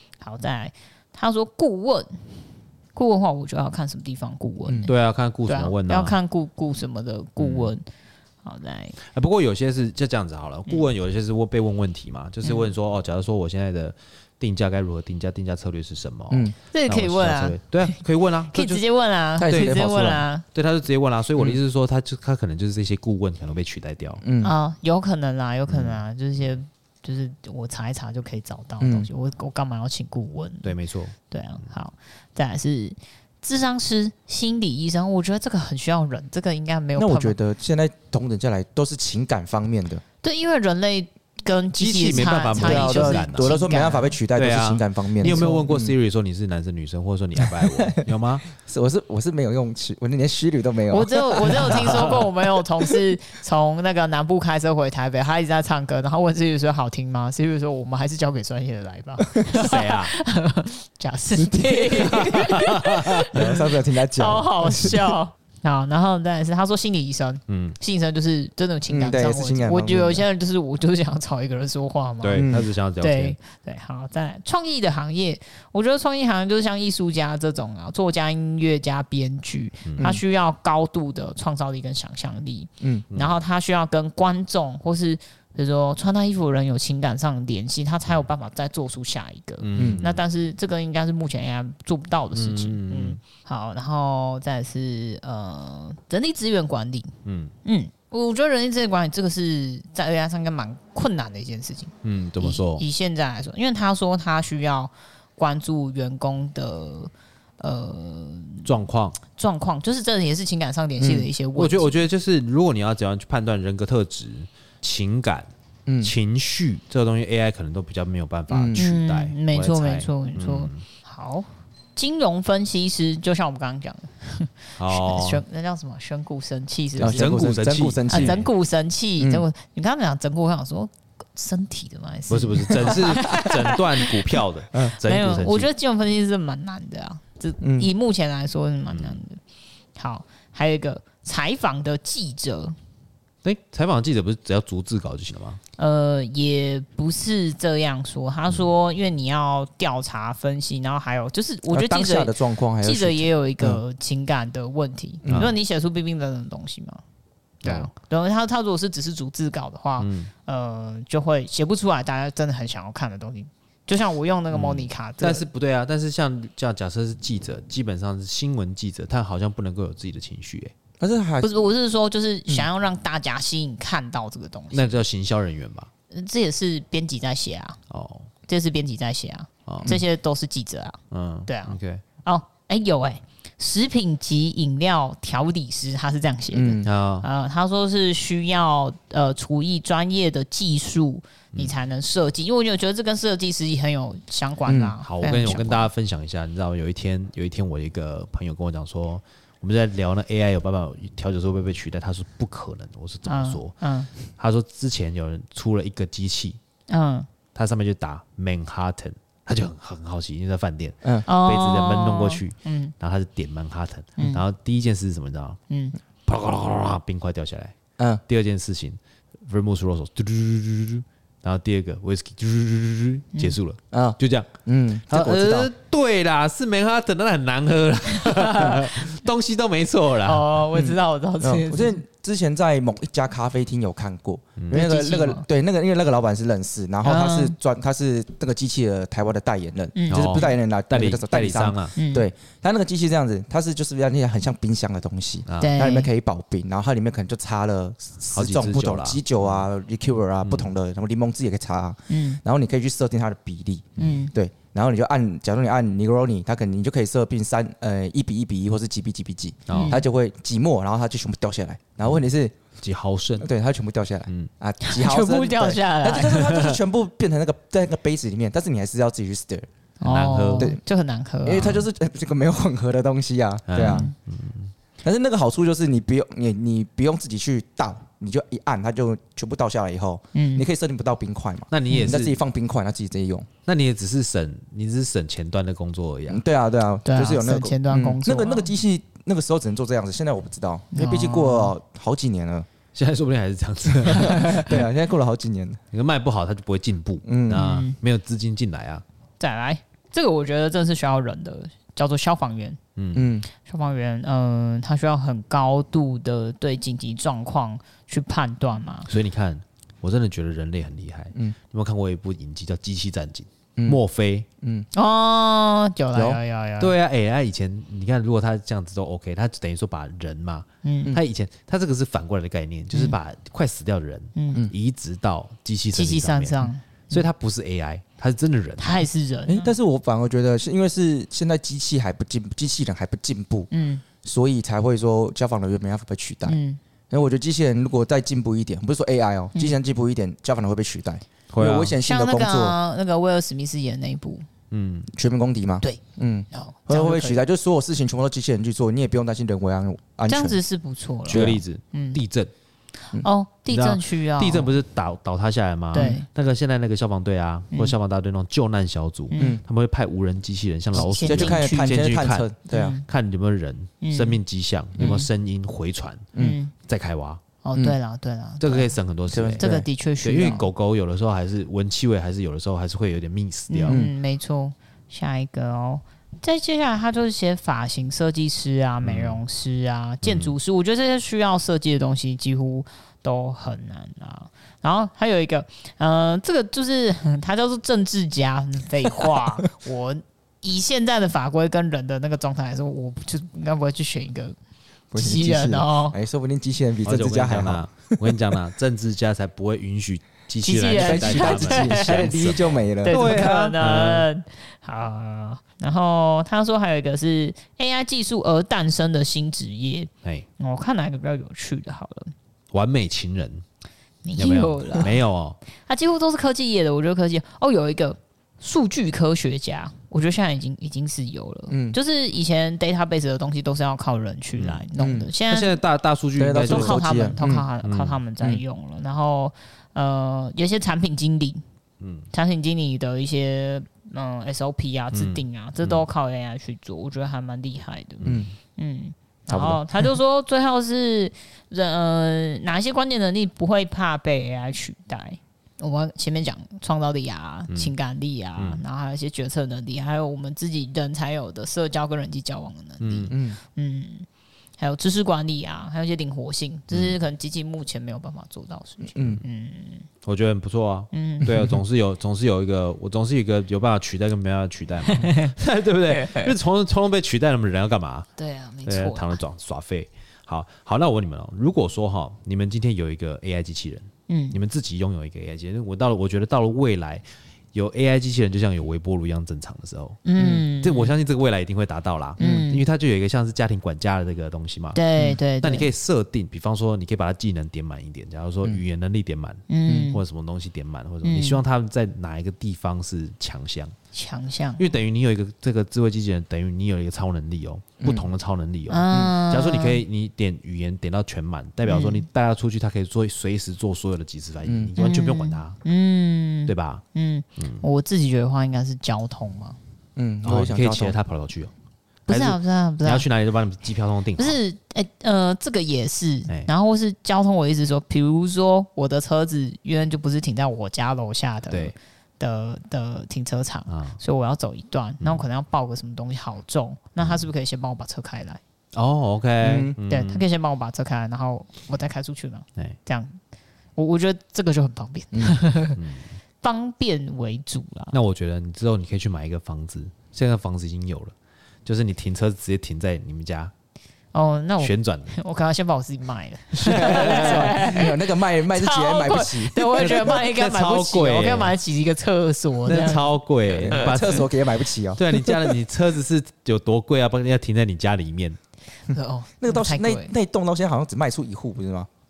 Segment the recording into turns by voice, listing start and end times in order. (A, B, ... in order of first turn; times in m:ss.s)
0:00.2-0:02.3 A
0:03.0-0:04.9 A
0:04.9-0:06.2 B
0:05.5-0:07.8 A
0:07.4-0:07.7 B
0:08.4-0:09.0 A
0:09.0-0:18.8 B
0:16.7-0:18.0 A
0:18.5-0:20.4 A
0:19.4-0:20.1 C
0:19.4-0:24.2 B
0:24.2-0:24.5 C
0:24.4-0:30.7 A
0:25.7-0:26.0 B
0:28.8-0:29.1 C
0:30.6-0:31.2 B
0:31.3-0:37.4 A
0:37.0-0:40.0 C
0:40.2-0:44.2 A
0:41.8-0:43.5 B
0:42.5-0:45.9 C
0:44.4-0:48.5 B
0:45.2-0:45.7 A
0:47.4-0:52.2 C
0:50.9-1:37.1 A
0:51.7-0:52.2 B
0:59.5-1:00.1 B
1:01.4-1:02.2 C
1:01.9-1:03.4 B
1:03.3-1:05.1 C
1:07.5-1:07.8 B
1:08.9-1:10.2 C
1:12.2-1:13.4 B
1:12.4-1:12.7 C
1:19.9-1:20.1 B
1:22.8-1:23.1 C
1:23.1-1:23.4 B
1:29.6-1:30.2 B
1:29.8-1:30.0 C
1:32.3-1:33.2 B
1:37.2-1:37.5 B
1:37.6-1:48.7 A
1:42.0-1:42.8 B
1:48.6-1:49.2 B
1:49.3-1:52.1 A
1:51.0-1:51.3 C
1:51.6-1:55.5 B
1:55.9-1:56.1 C
1:56.0-2:00.8 B
1:58.5-1:58.8 C
1:58.8-2:07.4 A
2:04.8-2:05.4 B
2:07.0-2:08.4 C
2:07.0-2:08.5 B
2:08.1-2:19.4 A
2:09.2-2:09.4 C
2:12.3-2:15.7 B
2:17.6-2:17.9 C
2:18.9-2:19.2 B
2:20.0-2:22.8 A
2:23.4-2:25.6 B
2:25.8-2:37.0 A
2:31.7-2:33.8 C
2:35.2-2:35.5 C
2:35.3-2:35.6 B
2:37.6-2:37.9 B
2:37.6-2:45.5 A
2:40.0-2:40.3 B
2:44.5-2:50.7 B
2:51.0-2:51.5 C
2:51.4-2:54.9 A
2:54.7-2:55.9 B
2:56.1-2:57.8 A
2:57.9-2:58.3 B
2:58.5-3:15.9 A
2:59.7-2:59.9 B
3:01.1-3:02.0 B
3:06.5-3:06.9 C
3:06.8-3:07.3 B
3:14.7-3:15.0 C
3:15.0-3:26.6 B
3:23.3-3:24.1 A
3:26.9-3:27.3 A
3:27.6-3:35.6 B
3:31.3-3:32.9 A
3:35.7-3:36.0 A
3:36.3-3:37.7 B
3:38.0-3:38.2 C
3:38.3-3:44.5 B
3:43.9-3:45.7 C
3:45.1-3:50.6 B
3:48.1-3:49.0 A
3:50.2-3:52.0 A
3:50.7-4:22.5 C
3:54.7-3:55.4 A
3:57.0-3:57.6 A
4:00.0-4:00.5 A
4:00.1-4:02.0 B
4:02.0-4:02.3 A
4:05.5-4:05.8 B
4:05.6-4:06.1 A
4:08.3-4:09.6 B
4:10.4-4:10.7 B
4:12.1-4:12.4 A
4:14.0-4:14.3 A
4:19.7-4:20.0 B
4:19.7-4:20.0 A
4:22.8-4:23.5 B
4:23.4-4:29.7 C
4:24.8-4:26.8 A
4:30.0-4:31.8 A
4:30.0-4:30.7 B
4:31.4-4:34.1 C
4:33.7-4:34.7 B
4:33.8-4:34.1 A
4:35.0-4:43.5 C
4:40.3-4:40.6 A
4:41.7-4:42.4 B
4:43.7-4:46.4 B
4:46.3-4:52.7 C
4:47.0-4:48.7 A
4:50.9-4:51.7 A
4:52.9-4:54.8 B
4:54.1-4:55.8 C
4:55.9-4:59.0 B
4:57.2-4:57.6 C
4:57.5-4:58.0 A
4:59.4-5:02.8 A
5:03.0-5:03.3 B
5:03.2-5:03.5 C
5:03.6-5:09.1 A
5:09.1-5:14.5 B
5:14.6-5:14.9 C
5:14.9-5:17.0 A
5:16.1-5:16.4 C
5:16.8-5:29.1 B
5:20.8-5:21.2 A
5:24.4-5:24.7 A
5:25.9-5:27.2 A
5:28.8-5:29.7 A
5:29.5-5:33.7 C
5:33.7-5:34.0 A
5:34.2-5:36.6 C
5:36.5-5:36.8 A
5:37.1-5:42.8 C
5:41.5-5:42.0 B
5:42.0-5:44.4 A
5:44.7-5:45.1 B
5:45.1-5:50.6 C
5:46.5-5:47.4 A
5:50.3-5:52.2 A
5:51.2-5:51.6 C
5:51.3-5:52.5 B
5:53.2-5:54.7 A
5:53.7-6:02.5 B
5:55.9-5:56.3 A
5:59.3-5:59.6 A
6:00.9-6:01.9 A
6:01.0-6:03.0 C
6:02.7-6:03.0 A
6:03.1-6:06.3 B
6:04.0-6:04.4 A
6:05.0-6:05.3 A
6:06.4-6:06.7 A
6:06.8-6:07.4 B
6:07.6-6:08.9 A
6:08.6-6:09.7 B
6:09.3-6:09.9 C
6:09.6-6:10.7 A
6:10.2-6:14.0 B
6:13.7-6:34.6 A
6:19.0-6:19.4 B
6:20.2-6:20.6 B
6:35.1-6:38.4 C
6:35.2-6:36.2 A
6:37.0-6:44.3 B
6:40.6-6:42.4 A
6:40.9-6:43.6 C
6:43.0-6:52.3 A
6:52.7-6:53.6 B
6:54.2-6:55.2 A
6:54.4-6:55.6 B
6:55.9-7:05.8 A
7:01.7-7:02.0 C
7:04.6-7:04.8 B
7:05.0-7:05.3 C
7:05.5-7:07.0 B
7:06.4-7:07.7 C
7:06.6-7:11.6 A
7:07.8-7:08.2 B
7:12.0-7:12.3 B
7:12.3-7:34.3 A
7:15.1-7:16.0 B
7:18.2-7:18.5 C
7:19.5-7:19.8 B
7:27.7-7:28.0 B
7:28.6-7:28.8 B
7:33.0-7:33.4 B
7:33.3-7:33.6 C
7:34.8-7:40.1 A
7:36.9-7:37.2 B
7:39.1-7:39.4 C
7:40.2-7:48.3 B
7:41.1-7:41.7 A
7:45.1-7:45.5 A
7:48.4-7:49.4 A
7:48.9-7:57.2 B
7:54.3-7:54.6 A
7:57.7-8:05.0 B
8:00.2-8:01.1 A
8:00.4-8:00.6 C
8:02.4-8:02.8 A
8:02.4-8:02.7 C
8:05.0-8:05.9 A
8:05.6-8:14.0 B
8:09.7-8:10.2 A
8:11.2-8:11.6 A
8:14.1-8:14.9 A
8:14.8-8:25.8 B
8:18.0-8:18.3 C
8:18.9-8:20.0 A
8:21.9-8:22.3 A
8:24.6-8:24.9 C
8:25.0-8:29.8 A
8:26.7-8:27.0 B
8:27.6-8:27.8 B
8:30.2-8:31.2 C
8:30.4-8:31.7 B
8:32.3-8:33.3 A
8:32.3-8:34.6 B
8:34.4-8:48.6 A
8:41.7-8:42.0 B
8:43.9-8:44.2 B
8:48.9-8:50.5 B
8:49.6-8:50.0 C
8:50.1-8:53.4 A
8:54.0-8:56.0 A
8:56.0-8:56.3 B
8:56.6-8:58.2 A
8:58.1-9:01.3 B
9:01.8-9:03.7 B
9:04.3-9:13.3 A
9:04.8-9:05.4 B
9:06.8-9:07.9 B
9:06.8-9:10.4 C
9:10.0-9:11.8 B
9:12.9-9:14.5 B
9:13.7-9:15.7 C
9:15.2-9:18.6 B
9:19.1-9:20.3 A
9:19.6-9:22.1 C